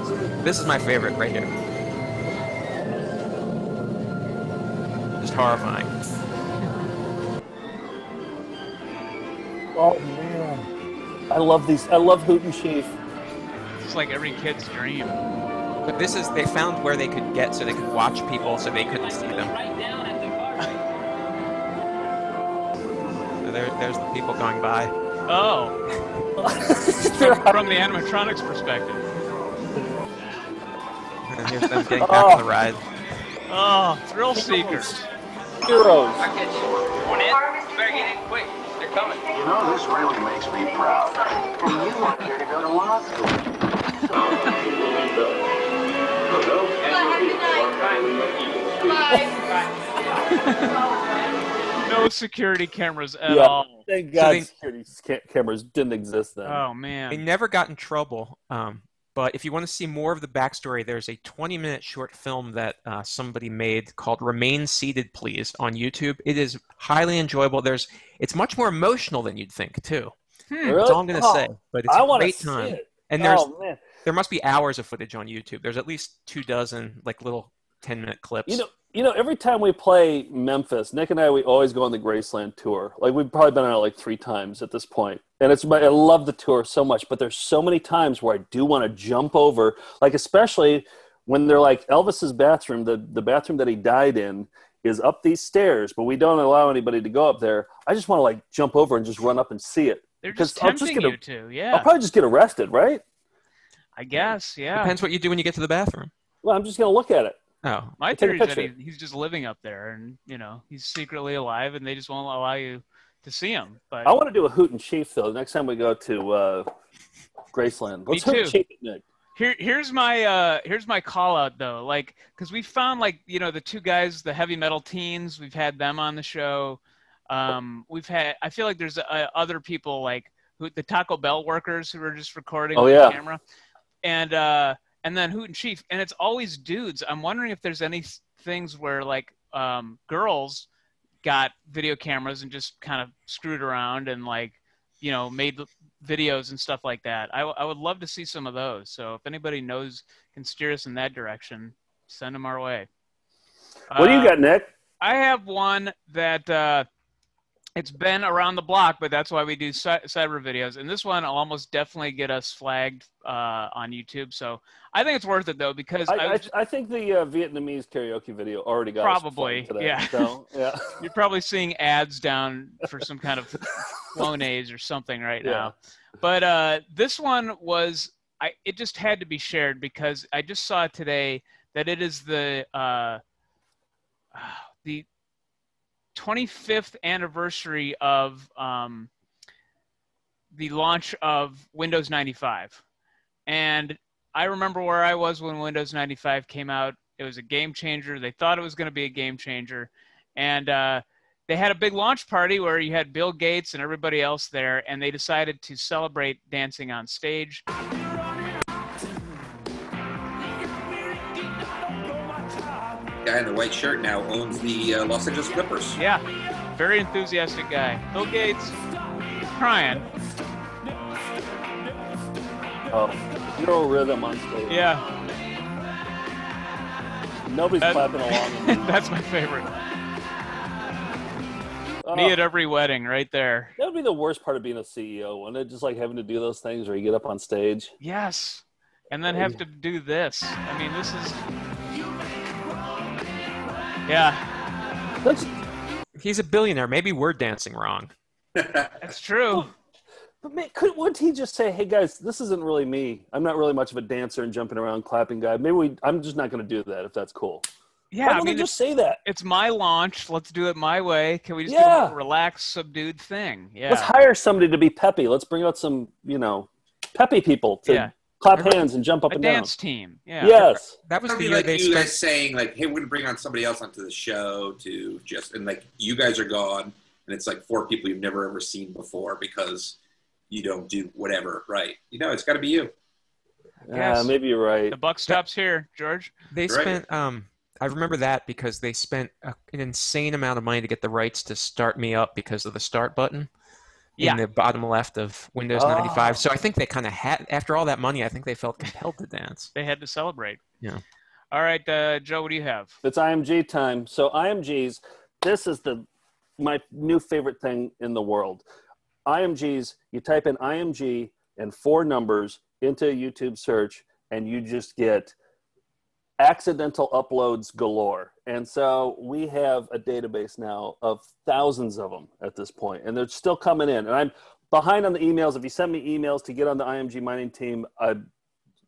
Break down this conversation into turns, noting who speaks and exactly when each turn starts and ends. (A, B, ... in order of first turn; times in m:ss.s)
0:00.4-0:01.5 A
0:05.2-0:05.9 A
0:09.8-0:10.7 B
0:11.3-0:12.9 B
0:13.8-0:15.2 C
0:15.8-0:19.5 A
0:19.0-0:20.7 D
0:23.4-0:24.9 A
0:25.3-0:25.8 C
0:26.4-0:27.6 B
0:27.1-0:29.0 C
0:31.3-0:32.8 A
0:32.0-0:32.5 B
0:33.5-0:35.1 C
0:34.4-0:35.0 B
0:35.6-0:36.3 B
0:36.2-0:39.2 D
0:39.4-0:41.1 E
0:42.4-0:43.0 E
0:46.8-0:50.0 D
0:50.3-0:50.7 C
0:51.8-0:53.9 C
0:53.3-0:56.6 B
0:54.1-0:54.5 A
0:56.4-0:57.2 C
0:57.1-1:10.2 A
1:10.5-1:10.8 C
1:10.6-1:13.8 B
1:10.8-1:13.5 A
1:14.0-1:18.6 A
1:18.5-1:41.2 B
1:40.2-1:41.9 C
1:41.7-1:43.0 B
1:44.0-1:45.0 C
1:44.8-1:46.1 A
1:46.4-1:47.4 B
1:47.6-1:48.0 A
1:48.0-1:54.2 C
1:48.1-1:48.7 B
1:54.0-1:56.7 B
1:57.5-1:59.0 B
1:58.1-1:58.6 C
1:59.4-2:13.4 C
2:12.8-2:13.2 B
2:14.0-2:20.7 C
2:21.2-2:32.9 C
2:33.9-2:34.4 C
2:34.0-2:34.7 B
2:35.0-2:36.9 C
2:37.8-2:46.5 C
2:46.1-2:50.9 B
2:49.0-2:50.3 C
2:51.0-3:03.2 C
2:55.4-2:55.7 B
3:04.3-3:05.1 C
3:06.2-3:09.1 C
3:10.5-3:12.8 C
3:13.5-3:27.6 C
3:33.2-3:36.0 F
3:36.0-3:36.2 C
3:36.8-3:38.8 C
3:39.4-3:40.0 C
3:42.9-3:44.8 B
3:44.7-3:45.0 C
3:47.5-3:48.9 B
3:47.8-3:49.7 C
3:52.0-3:52.4 B
3:52.1-3:53.7 C
3:53.8-3:57.9 B
3:58.0-4:01.4 C
3:59.3-3:59.6 B
4:04.1-4:04.4 C
4:05.2-4:05.5 B
4:06.2-4:08.1 A
4:08.6-4:09.1 F
4:09.0-4:09.7 C
4:10.4-4:17.6 B
4:18.1-4:18.7 C
4:18.2-4:19.2 B
4:19.2-4:24.1 C
4:21.7-4:22.2 B
4:23.9-4:29.7 B
4:27.9-4:28.1 C
4:28.6-4:28.8 A
4:29.3-4:30.6 C
4:30.4-4:30.9 B
4:30.6-4:32.2 A
4:31.2-4:40.0 F
4:40.5-4:42.9 F
4:43.9-4:45.0 B
4:43.9-4:44.3 C
4:44.9-4:46.3 C
4:46.5-4:53.5 A
4:46.7-4:47.0 F
4:54.2-4:59.7 A
4:55.7-4:56.4 B
4:59.7-5:00.6 C
5:01.5-5:03.0 C
5:03.0-5:06.1 B
5:06.6-5:08.6 B
5:09.3-5:15.4 B
5:16.4-5:28.2 B